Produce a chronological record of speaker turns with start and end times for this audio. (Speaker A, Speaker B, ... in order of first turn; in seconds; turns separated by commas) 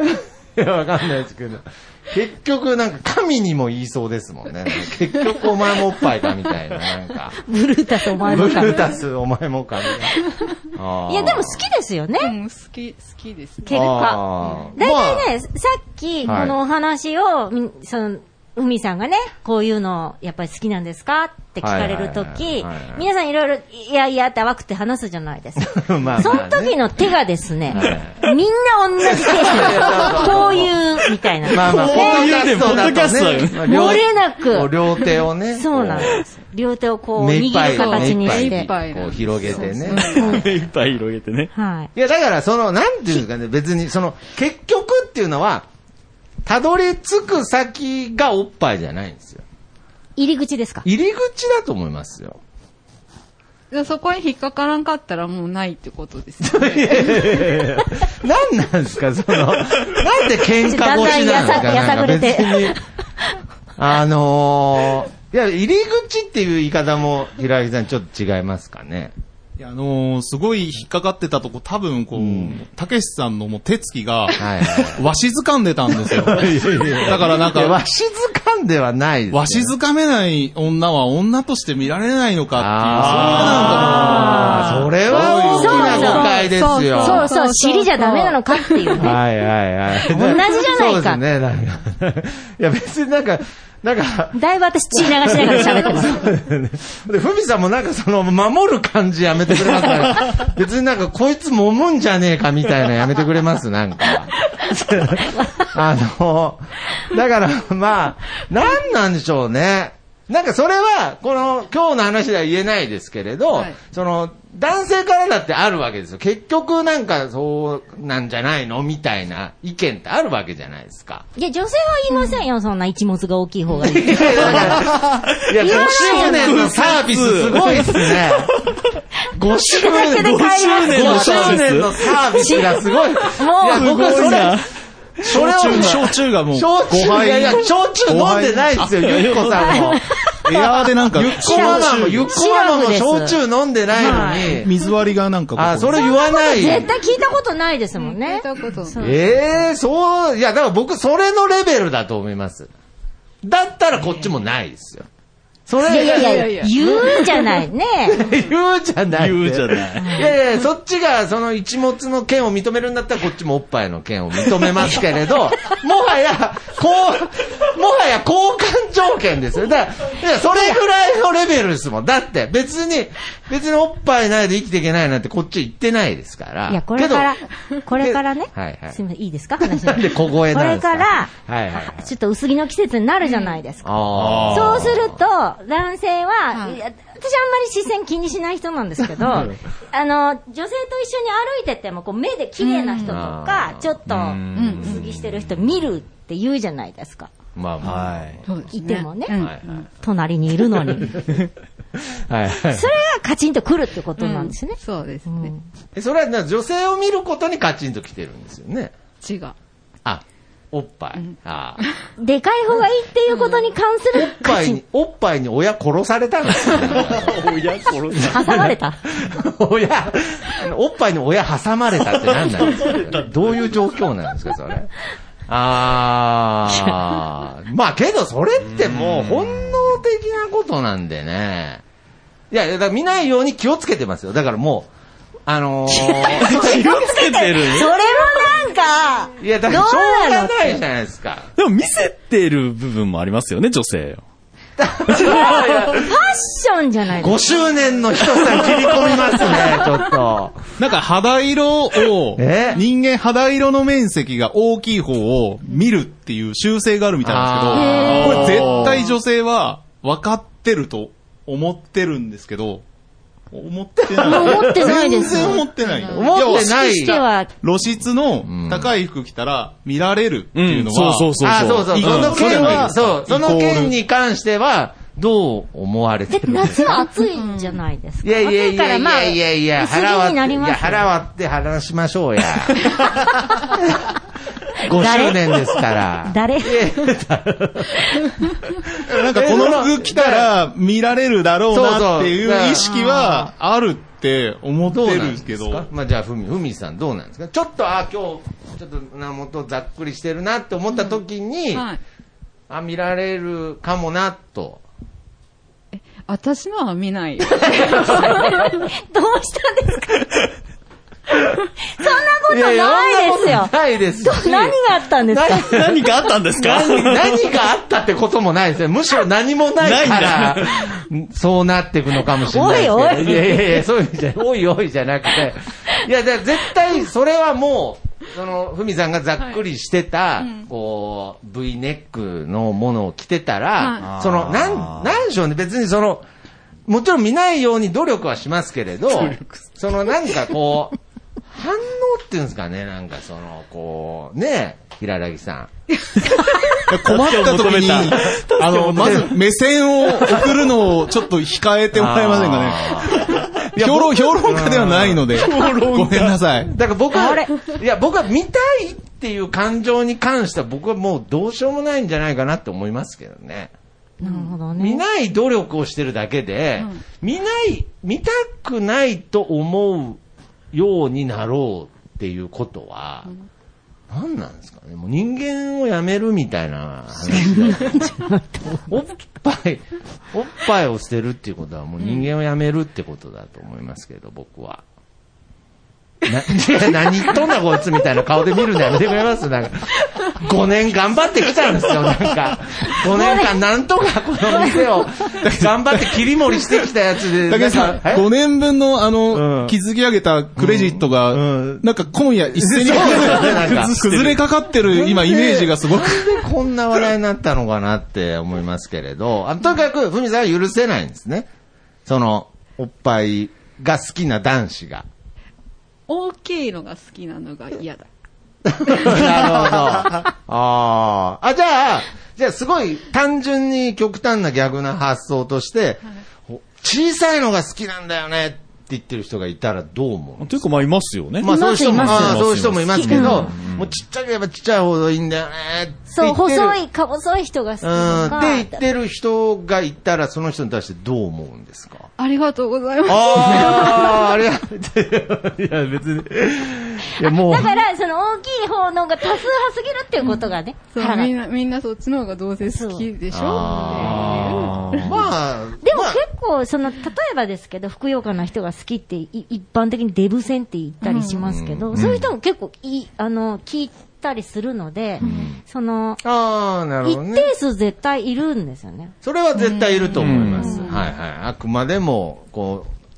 Speaker A: 0.2-7.4, Speaker B: 7.5-8.8, Speaker C: 8.2-8.9, Speaker A: 8.2-10.2, Speaker A: 10.7-11.7, Speaker B: 11.1-12.3, Speaker C: 12.2-14.8, Speaker B: 13.7-14.2, Speaker A: 13.7-14.8, Speaker B: 14.8-25.6, Speaker D: 14.8-15.2, Speaker A: 16.2-16.6, Speaker A: 21.6-23.1, Speaker A: 25.6-26.8, Speaker B: 26.2-32.4, Speaker A: 27.7-28.3, Speaker A: 29.1-30.8, Speaker E: 31.5-33.7, Speaker A: 31.5-36.3, Speaker B: 33.7-34.7, Speaker B: 35.5-38.7, Speaker A: 37.2-40.4, Speaker C: 37.6-40.4, Speaker B: 39.5-40.4, Speaker E: 40.2-41.5, Speaker B: 41.5-41.9, Speaker A: 42.0-45.7, Speaker A: 46.5-49.4, Speaker B: 50.2-50.9, Speaker A: 50.8-52.4, Speaker C: 53.7-57.4, Speaker A: 56.4-62.8, Speaker B: 60.6-62.8, Speaker A: 63.8-69.1, Speaker D: 69.6-77.8, Speaker A: 72.1-72.6, Speaker A: 74.4-75.0, Speaker A: 75.9-79.7, Speaker D: 79.3-86.2, Speaker A: 82.5-87.3, Speaker C: 85.3-89.2, Speaker B: 85.5-86.3, Speaker B: 87.0-89.1, Speaker A: 89.0-94.4, Speaker B: 90.1-91.2, Speaker B: 94.3-96.1, Speaker A: 94.9-121.3, Speaker B: 121.4-124.5, Speaker A: 123.8-128.5, Speaker E: 124.4-128.7, Speaker B: 125.6-126.7, Speaker A: 129.3-134.7, Speaker B: 129.8-131.6, Speaker E: 130.1-131.9, Speaker B: 132.4-132.7, Speaker B: 133.4-134.4, Speaker E: 133.7-134.7, Speaker A: 135.2-140.0, Speaker D: 135.3-138.9, Speaker E: 139.0-139.7, Speaker D: 140.4-142.2, Speaker A: 141.1-144.7, Speaker B: 141.4-143.4, Speaker C: 144.0-144.6, Speaker D: 144.5-146.1, Speaker A: 145.6-146.9, Speaker B: 145.9-149.4, Speaker C: 147.9-149.2, Speaker A: 149.0-152.7, Speaker A: 153.4-155.1, Speaker A: 155.7-156.7, Speaker B: 155.8-158.2, Speaker C: 156.0-157.5, Speaker A: 158.1-177.4, Speaker E: 159.2-160.1, Speaker B: 160.0-160.3, Speaker B: 176.7-183.9, Speaker A: 178.0-179.0, Speaker A: 179.6-182.1, Speaker C: 183.2-183.6, Speaker A: 183.8-185.2, Speaker E: 184.2-184.7, Speaker D: 184.3-184.9, Speaker B: 184.5-197.3, Speaker C: 186.5-186.8, Speaker C: 192.6-193.3, Speaker A: 193.0-194.0, Speaker E: 194.1-194.9, Speaker C: 194.5-195.1, Speaker A: 197.6-198.7, Speaker E: 197.8-198.4, Speaker C: 198.5-199.9, Speaker B: 198.7-199.4, Speaker A: 199.3-199.8, Speaker B: 200.0-201.1, Speaker A: 200.8-201.4, Speaker A: 202.2-202.9, Speaker B: 202.7-205.6, Speaker C: 204.2-205.5, Speaker A: 205.9-208.9, Speaker C: 209.2-209.6, Speaker A: 210.1-211.8, Speaker C: 211.2-211.9, Speaker B: 212.2-214.8, Speaker C: 213.3-213.7, Speaker A: 214.1-217.6, Speaker E: 216.9-218.6, Speaker A: 218.1-224.9, Speaker B: 218.3-219.0, Speaker E: 222.4-223.5, Speaker A: 225.5-231.8, Speaker E: 228.7-229.7, Speaker A: 232.5-234.9, Speaker A: 235.5-237.1, Speaker B: 236.0-240.7, Speaker E: 236.3-237.9, Speaker A: 239.4-241.5, Speaker E: 241.6-244.2, Speaker A: 244.8-246.2, Speaker B: 245.2-247.4, Speaker A: 247.2-250.6, Speaker D: 250.8-262.8, Speaker A: 252.4-252.8, Speaker A: 257.2-258.8, Speaker B: 257.7-258.9, Speaker D: 263.5-273.9, Speaker A: 264.0-267.2, Speaker B: 264.2-265.6, Speaker C: 265.8-266.3, Speaker B: 266.5-267.5, Speaker A: 268.4-268.9, Speaker E: 270.6-272.9, Speaker A: 271.4-277.1, Speaker B: 276.3-281.1, Speaker C: 277.3-277.8, Speaker A: 278.2-283.0, Speaker A: 283.7-284.1, Speaker A: 284.8-288.1, Speaker B: 285.0-285.5, Speaker B: 286.2-286.9, Speaker D: 289.0-295.9, Speaker A: 289.2-290.5, Speaker A: 291.7-292.9, Speaker B: 292.8-293.5, Speaker A: 294.8-301.9, Speaker C: 301.7-302.0, Speaker A: 302.7-304.8, Speaker C: 305.9-308.8, Speaker A: 307.6-308.3, Speaker B: 308.3-310.2, Speaker B: 312.0-313.7, Speaker A: 312.5-336.3, Speaker B: 314.2-315.7, Speaker E: 315.7-317.4, Speaker E: 319.8-321.0, Speaker B: 322.5-323.8, Speaker C: 330.4-330.6, Speaker C: 333.8-334.1, Speaker E: 334.0-335.1, Speaker A: 336.9-341.0, Speaker E: 339.1-339.6, Speaker A: 341.5-345.7, Speaker E: 346.8-349.3, Speaker D: 346.9-356.7, Speaker A: 348.8-349.3, Speaker A: 351.9-355.4, Speaker E: 355.4-356.4, Speaker A: 356.6-363.7, Speaker B: 357.1-357.5, Speaker C: 364.2-364.6, Speaker B: 364.2-365.0, Speaker A: 364.7-370.2, Speaker A: 370.7-373.3, Speaker A: 374.1-378.1, Speaker B: 377.3-378.8, Speaker A: 378.9-384.8, Speaker A: 386.3-398.3, Speaker B: 393.1-393.5, Speaker D: 395.4-396.2, Speaker D: 397.5-406.4, Speaker A: 399.3-399.8, Speaker A: 400.6-401.9, Speaker A: 402.5-404.3, Speaker A: 404.9-411.5, Speaker A: 412.1-415.1, Speaker C: 416.1-418.1, Speaker A: 418.7-430.6, Speaker C: 418.9-419.8, Speaker E: 430.4-433.9, Speaker A: 431.4-436.8, Speaker B: 431.4-433.5, Speaker B: 436.1-438.8, Speaker A: 437.8-442.1, Speaker C: 442.2-444.2, Speaker A: 443.1-447.8, Speaker B: 447.3-451.3, Speaker C: 450.2-455.1, Speaker B: 452.6-453.1, Speaker A: 453.3-456.2, Speaker E: 454.0-455.1, Speaker B: 455.8-466.2, Speaker C: 461.0-461.4, Speaker A: 461.4-462.2, Speaker E: 461.9-462.3, Speaker C: 465.2-465.5, Speaker A: 465.2-465.6, Speaker A: 466.2-467.5, Speaker B: 467.0-469.1, Speaker A: 469.2-472.9, Speaker C: 469.6-471.0, Speaker E: 470.2-470.8